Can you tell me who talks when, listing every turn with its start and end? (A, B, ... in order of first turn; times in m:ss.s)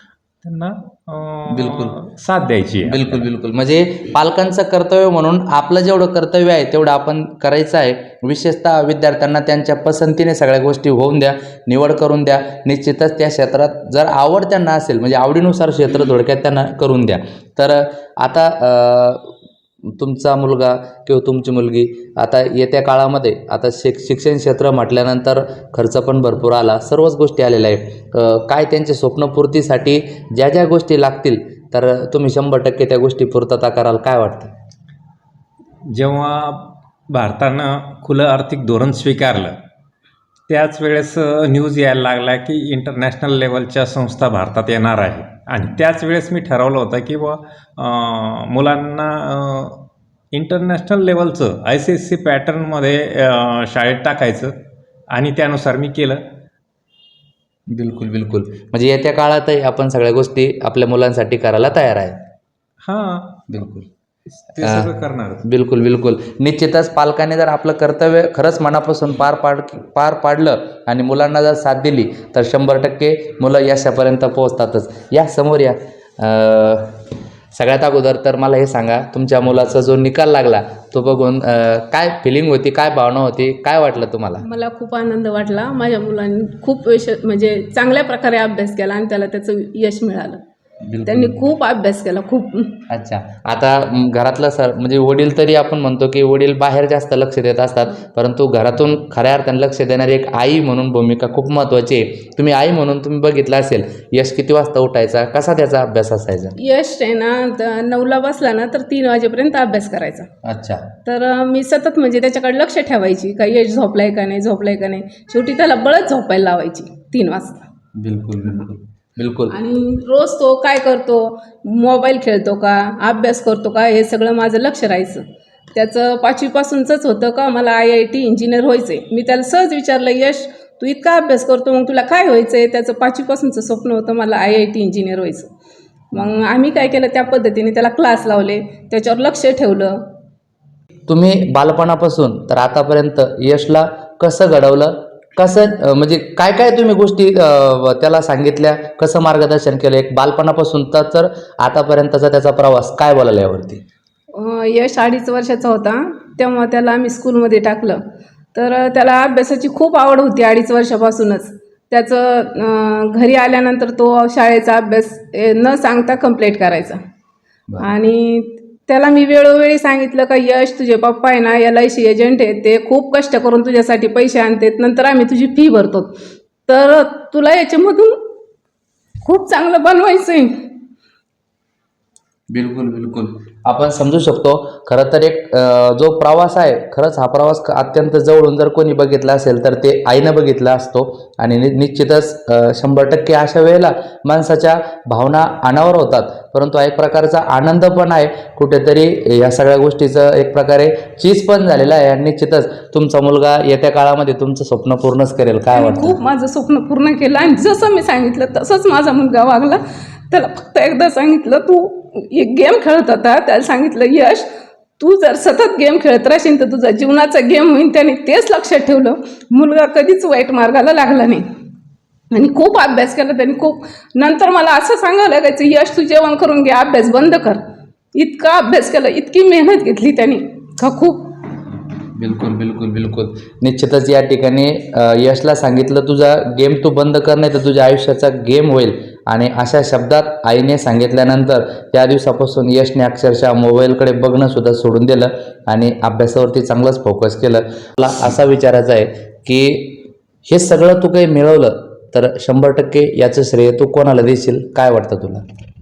0:00.4-0:03.2 A
0:01.5-0:02.0 B
0:02.9-0:19.3 B
0:20.0-0:34.5 B
0:35.9-0:39.6 A
0:40.5-0:54.5 A
0:55.1-0:56.2 A
0:57.7-1:02.2 B
1:02.8-1:03.4 A
1:03.5-1:03.9 B
1:04.5-1:05.4 A
1:04.6-1:04.9 B
1:05.4-1:16.9 B
1:17.5-1:24.4 B
1:24.4-1:30.4 C
1:30.9-1:31.4 B
1:31.0-1:32.8 C
1:32.9-1:46.6 B
1:46.6-1:50.3 C
1:50.4-1:50.8 B
1:51.0-1:57.6 C
1:58.0-1:59.6 B
1:59.5-2:15.5 C
2:16.1-2:20.0 C
2:21.1-2:33.8 B
2:34.3-2:38.0 C
2:38.5-2:47.0 C
2:47.8-2:56.1 C
2:56.7-2:58.2 C
2:59.2-3:00.7 C
3:02.5-3:26.2 B
3:25.7-3:34.4 C
3:35.0-3:41.4 C
3:42.3-3:47.6 C
3:48.2-3:51.4 C
3:52.2-4:15.4 B